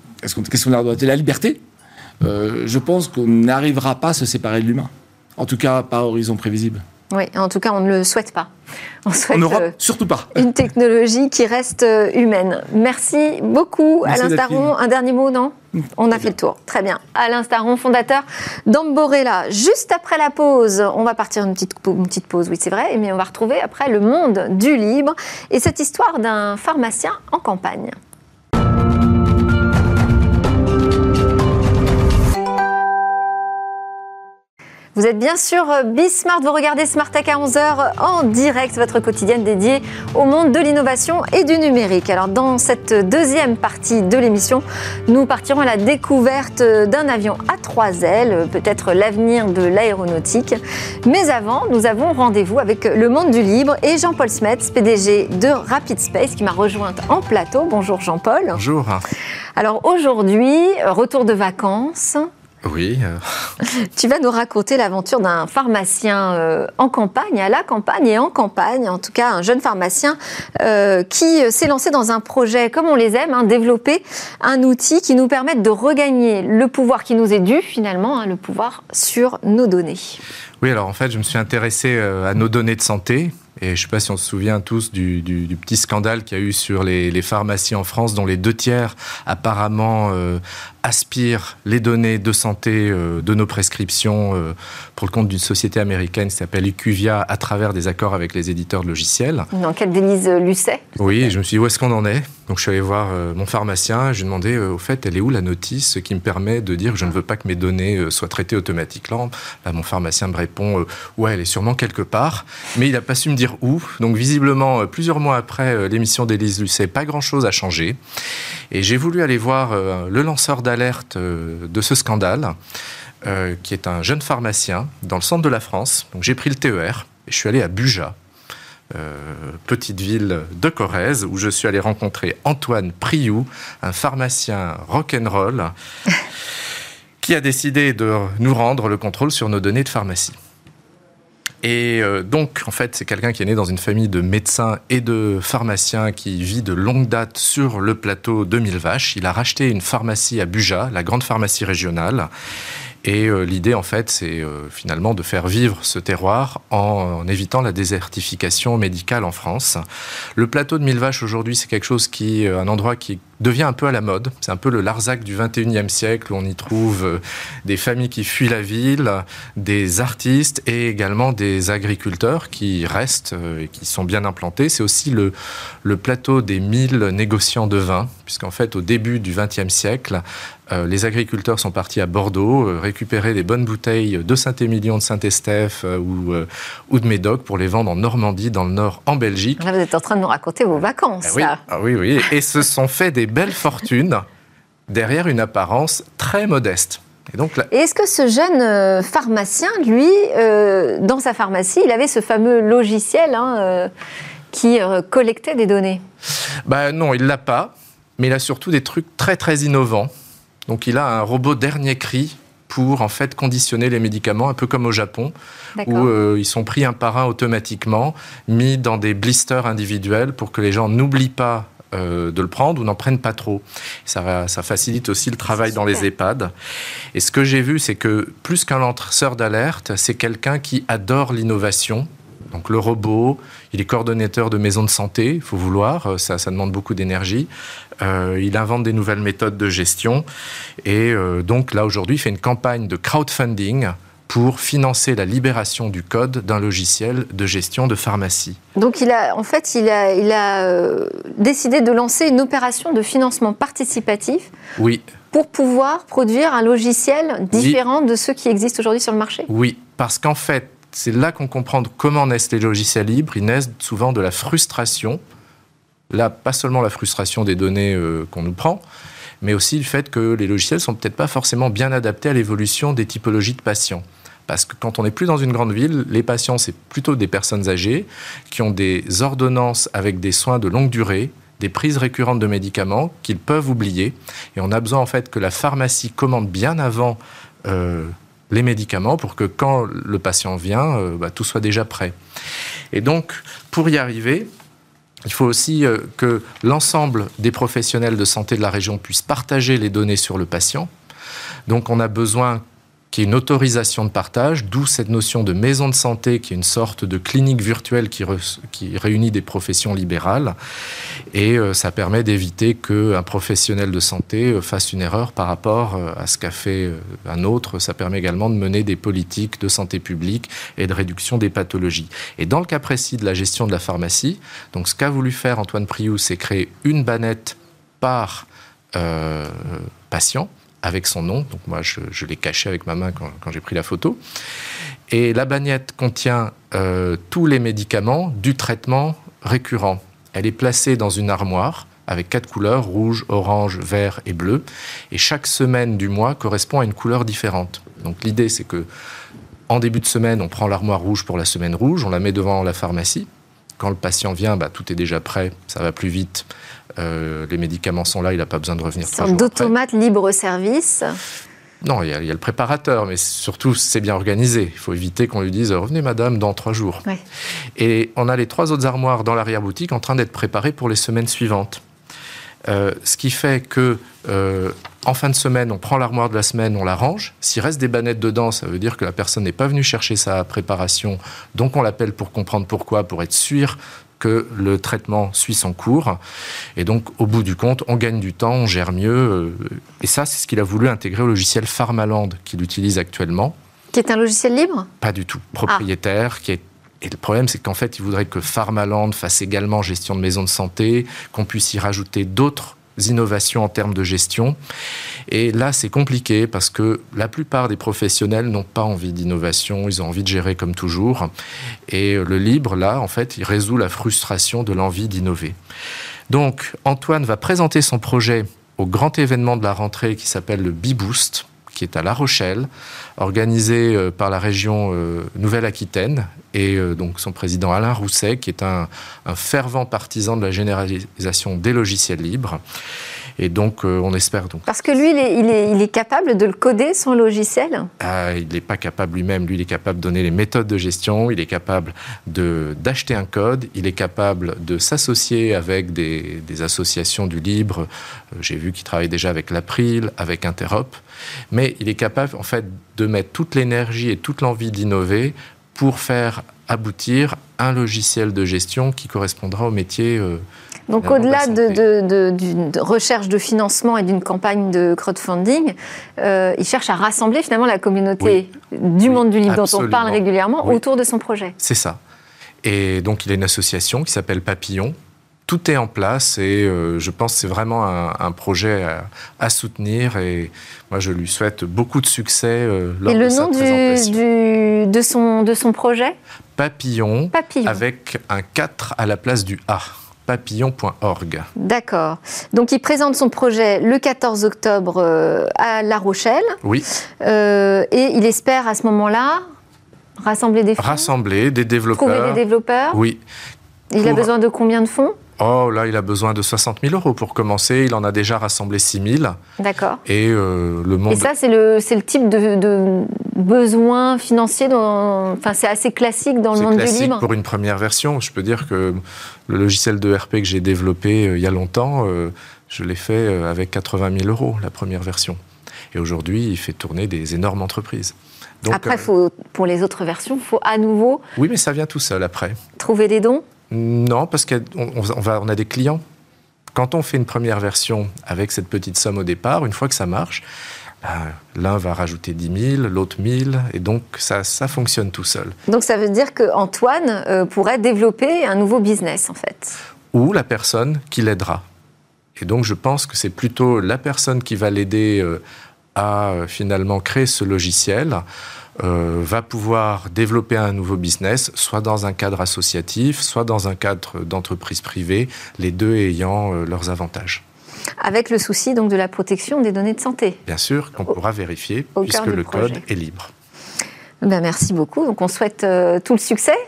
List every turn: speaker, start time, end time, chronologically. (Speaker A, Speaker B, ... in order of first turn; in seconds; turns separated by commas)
Speaker A: 0.2-1.6, Speaker A: 2.2-6.8, Speaker B: 7.1-8.5, Speaker B: 9.1-9.7, Speaker A: 9.3-10.5, Speaker B: 10.3-28.0, Speaker A: 14.1-14.7, Speaker A: 15.8-16.3, Speaker B: 35.0-58.6, Speaker C: 58.5-59.0, Speaker B: 59.6-62.3, Speaker C: 62.6-63.2, Speaker B: 63.6-80.2, Speaker C: 80.6-99.5, Speaker B: 99.5-101.3, Speaker C: 101.0-118.0, Speaker C: 118.7-122.5, Speaker C: 123.2-128.2, Speaker C: 128.9-135.7, Speaker C: 137.2-140.4, Speaker C: 141.6-152.3, Speaker C: 153.0-159.8, Speaker C: 160.4-189.7, Speaker B: 189.6-191.6, Speaker C: 191.2-194.2, Speaker C: 194.9-197.7, Speaker B: 197.7-203.9, Speaker B: 204.5-206.0, Speaker C: 206.7-210.1, Speaker C: 210.7-226.5, Speaker B: 215.8-216.1, Speaker B: 225.7-226.0, Speaker C: 227.1-237.5, Speaker C: 238.0-240.2, Speaker C: 240.8-248.6, Speaker B: 248.8-254.5, Speaker C: 254.8-255.1, Speaker B: 255.3-259.5, Speaker C: 257.5-257.8, Speaker C: 259.5-265.2, Speaker C: 266.1-268.8, Speaker C: 269.4-292.1, Speaker C: 292.9-294.5, Speaker C: 295.2-300.9, Speaker C: 301.7-310.6, Speaker C: 311.3-334.2, Speaker C: 335.1-348.9, Speaker C: 349.7-353.3, Speaker C: 353.8-356.5, Speaker C: 357.0-359.7, Speaker B: 359.1-361.2, Speaker C: 361.8-367.0, Speaker C: 367.8-371.8, Speaker C: 372.7-386.2, Speaker C: 386.8-393.5, Speaker B: 393.9-394.9, Speaker C: 395.0-404.6, Speaker C: 405.3-411.3, Speaker C: 411.9-415.6, Speaker C: 416.3-432.6, Speaker C: 433.4-434.7, Speaker B: 434.7-437.9, Speaker C: 438.0-447.9, Speaker C: 448.4-451.0, Speaker C: 451.5-460.4, Speaker B: 460.9-471.6, Speaker C: 461.0-461.8, Speaker C: 469.1-470.8, Speaker C: 471.6-472.0, Speaker C: 472.6-484.2, Speaker B: 483.1-486.2, Speaker C: 486.6-491.5, Speaker B: 487.3-487.8, Speaker B: 491.6-496.6, Speaker B: 497.2-499.4, Speaker B: 500.2-501.1, Speaker C: 500.8-503.2, Speaker B: 501.9-503.0, Speaker B: 503.9-505.2, Speaker C: 504.0-504.3, Speaker C: 505.4-509.4, Speaker B: 509.6-510.0, Speaker C: 510.1-511.3, Speaker B: 511.1-517.3, Speaker C: 516.5-525.4, Speaker C: 525.9-529.1, Speaker B: 528.7-531.2, Speaker C: 531.4-532.6, Speaker B: 532.8-533.5, Speaker C: 533.7-536.0, Speaker C: 536.7-540.4, Speaker C: 541.0-545.5, Speaker B: 545.7-549.8, Speaker C: 550.1-551.6, Speaker C: 552.4-555.4, Speaker C: 556.0-558.2, Speaker C: 558.8-567.4, Speaker B: 568.0-570.4, Speaker C: 570.5-573.3, Speaker B: 572.0-572.8, Speaker B: 574.2-576.6